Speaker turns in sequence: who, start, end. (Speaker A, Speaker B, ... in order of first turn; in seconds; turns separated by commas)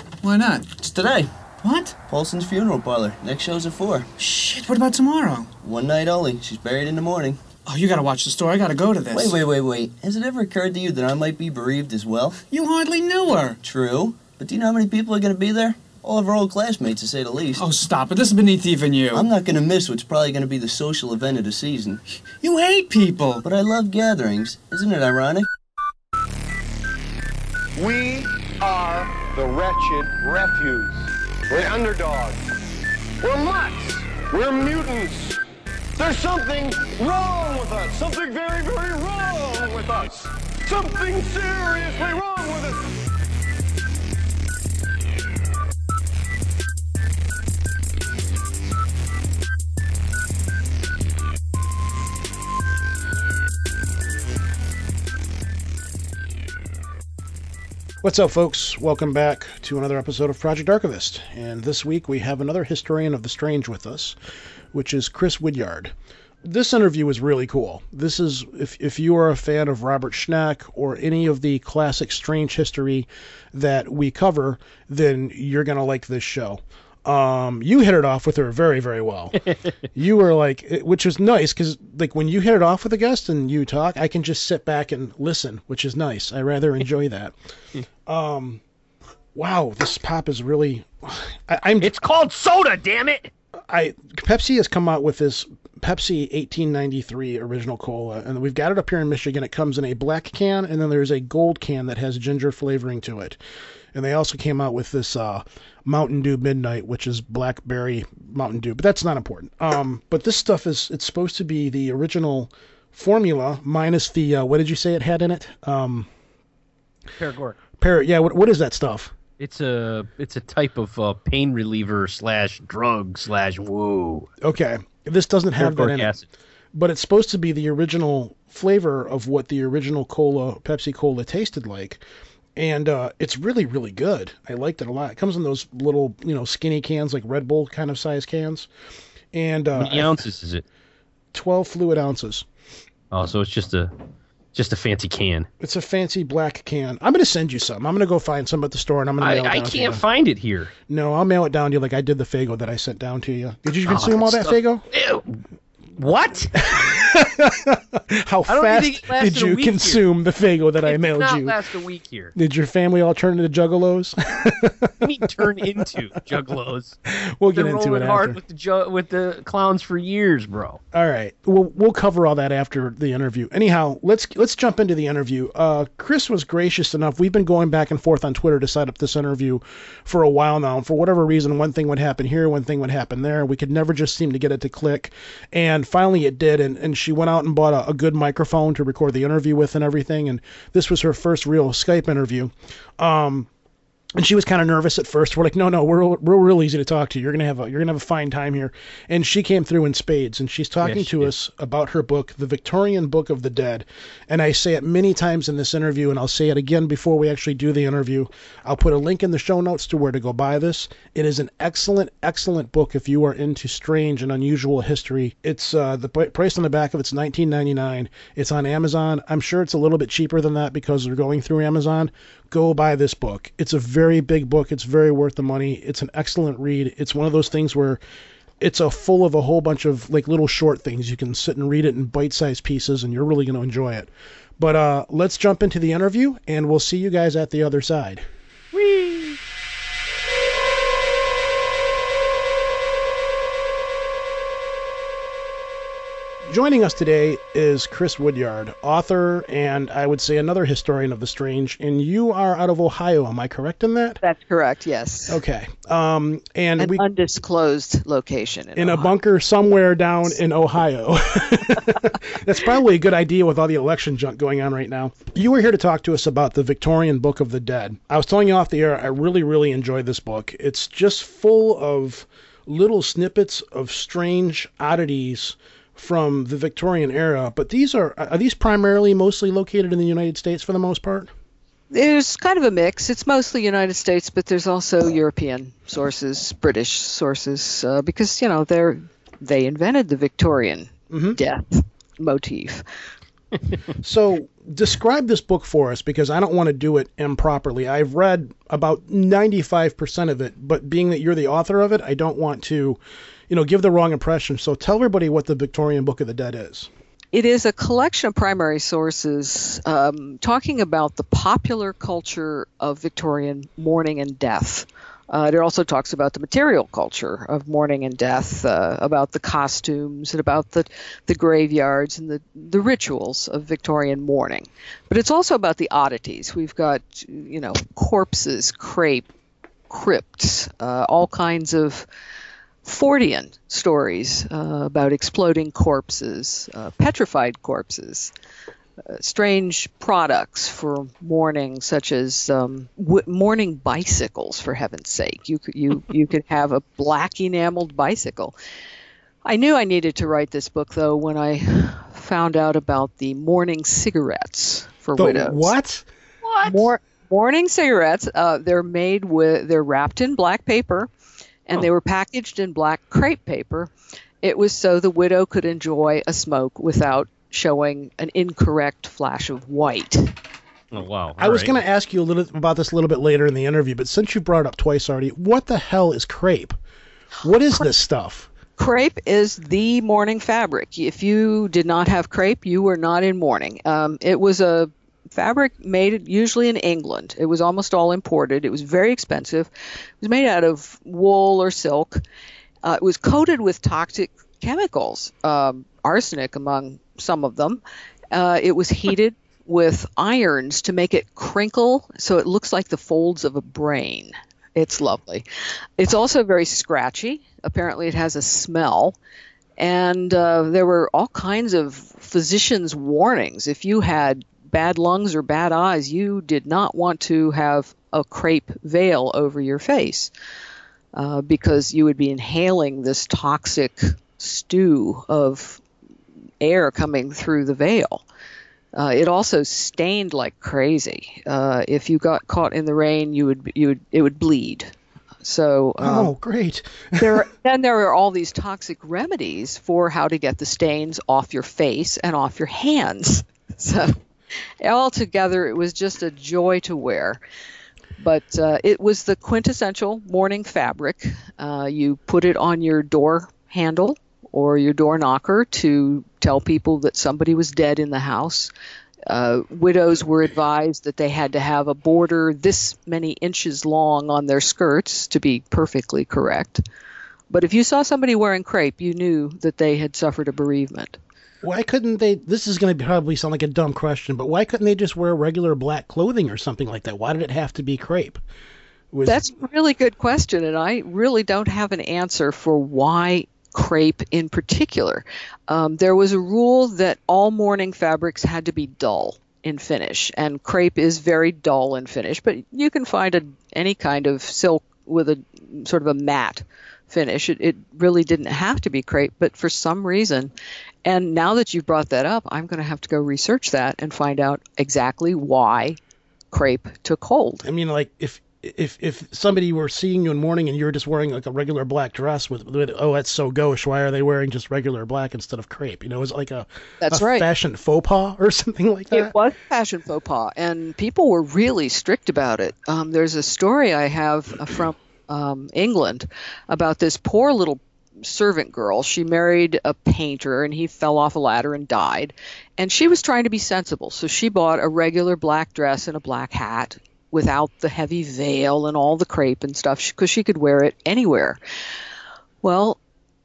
Speaker A: 0.2-0.7, Speaker B: 0.7-1.3, Speaker A: 1.6-1.9, Speaker B: 2.0-4.2, Speaker A: 4.2-5.5, Speaker B: 5.6-7.4, Speaker A: 7.6-9.4, Speaker B: 9.1-12.5, Speaker A: 12.5-13.6, Speaker B: 13.5-17.7, Speaker A: 17.5-19.3, Speaker B: 19.1-22.2, Speaker A: 22.4-23.4, Speaker B: 23.4-25.5, Speaker C: 27.8-32.4, Speaker C: 33.2-35.4, Speaker C: 36.0-42.9, Speaker D: 58.0-64.2, Speaker D: 64.7-79.4, Speaker E: 79.4-79.7, Speaker D: 79.9-87.3, Speaker D: 88.1-88.6, Speaker D: 89.3-91.9, Speaker E: 91.8-93.3, Speaker D: 93.7-103.4, Speaker D: 103.9-116.1, Speaker E: 117.2-117.6, Speaker D: 117.8-119.1, Speaker E: 119.4-124.3, Speaker D: 124.4-126.1, Speaker E: 125.6-126.2, Speaker D: 126.7-132.0, Speaker D: 132.6-138.7, Speaker D: 139.3-140.2, Speaker E: 139.7-140.6, Speaker D: 141.3-142.4, Speaker E: 143.1-143.9, Speaker E: 144.5-145.5, Speaker D: 145.6-150.0, Speaker E: 149.2-150.7, Speaker D: 150.9-154.8, Speaker E: 153.9-155.4, Speaker E: 155.9-157.0, Speaker D: 156.7-161.6, Speaker E: 158.5-160.0, Speaker E: 160.8-162.3, Speaker D: 162.3-165.8, Speaker E: 165.0-170.8, Speaker D: 167.4-168.4, Speaker D: 170.9-193.5, Speaker D: 194.2-228.0, Speaker E: 200.8-201.3, Speaker D: 228.6-238.2, Speaker E: 238.7-239.4, Speaker D: 246.4-254.2, Speaker F: 254.2-255.4, Speaker D: 255.3-257.0, Speaker F: 256.8-259.1, Speaker D: 258.8-281.3, Speaker F: 281.9-292.8, Speaker D: 291.1-291.4, Speaker D: 294.0-306.9, Speaker F: 307.3-329.3, Speaker F: 329.9-332.1, Speaker F: 332.8-338.3, Speaker F: 339.1-348.6, Speaker F: 349.4-355.7, Speaker D: 355.2-356.1, Speaker E: 356.4-356.8, Speaker F: 356.6-361.1, Speaker F: 361.6-363.9, Speaker F: 364.4-370.3, Speaker E: 370.9-371.7, Speaker D: 371.4-376.7, Speaker D: 377.4-378.5, Speaker F: 378.8-392.2, Speaker F: 392.8-397.8, Speaker F: 398.3-405.4, Speaker F: 406.0-409.1, Speaker F: 409.8-420.3, Speaker F: 421.1-425.8, Speaker F: 426.6-428.2, Speaker F: 428.9-434.9, Speaker F: 435.4-436.3, Speaker D: 436.0-437.4, Speaker F: 437.2-444.1, Speaker F: 444.8-447.4, Speaker F: 448.2-458.7, Speaker F: 459.3-466.8, Speaker F: 467.5-471.2, Speaker D: 471.6-478.4, Speaker D: 479.1-479.5, Speaker F: 479.2-500.5, Speaker F: 501.0-506.0, Speaker F: 506.5-507.6, Speaker D: 507.6-519.3, Speaker F: 517.0-517.5, Speaker F: 519.1-541.6, Speaker F: 542.6-543.0